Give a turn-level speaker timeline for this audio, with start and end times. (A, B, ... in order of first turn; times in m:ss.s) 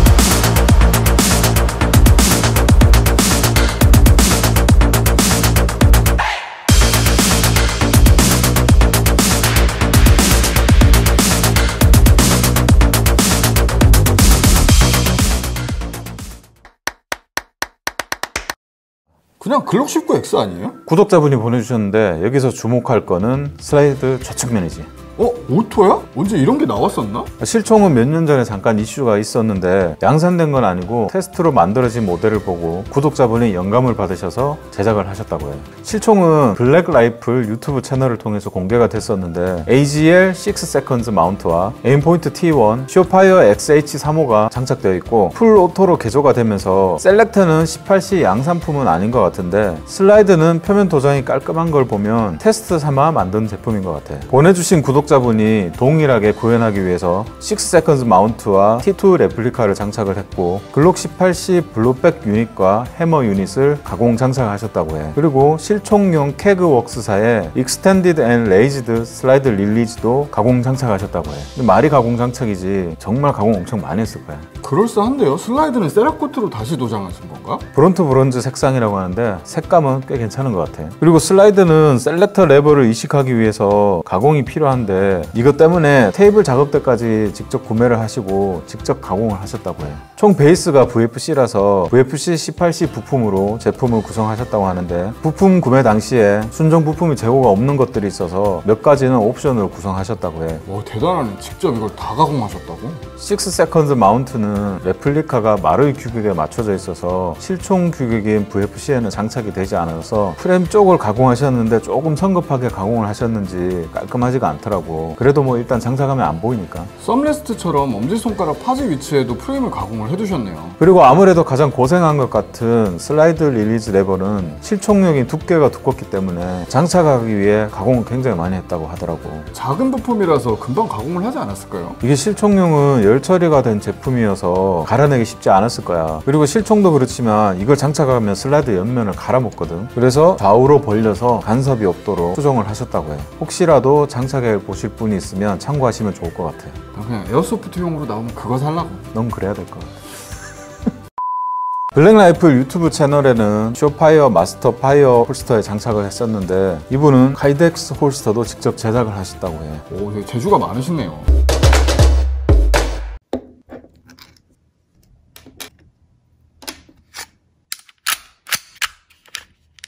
0:19.4-0:20.8 A
0:20.8-0:24.9 B
0:25.2-0:27.3 A
0:27.4-1:14.5 B
1:14.6-1:17.6 A
1:17.7-1:40.6 B
1:40.6-1:43.0 A
1:43.2-1:56.9 B
1:57.0-2:00.8 A
2:00.8-2:09.5 B
2:09.5-2:12.0 A
2:12.0-2:26.8 B
2:26.9-2:29.1 A
2:29.1-2:30.1 B
2:31.9-2:39.8 B
2:39.9-2:41.3 A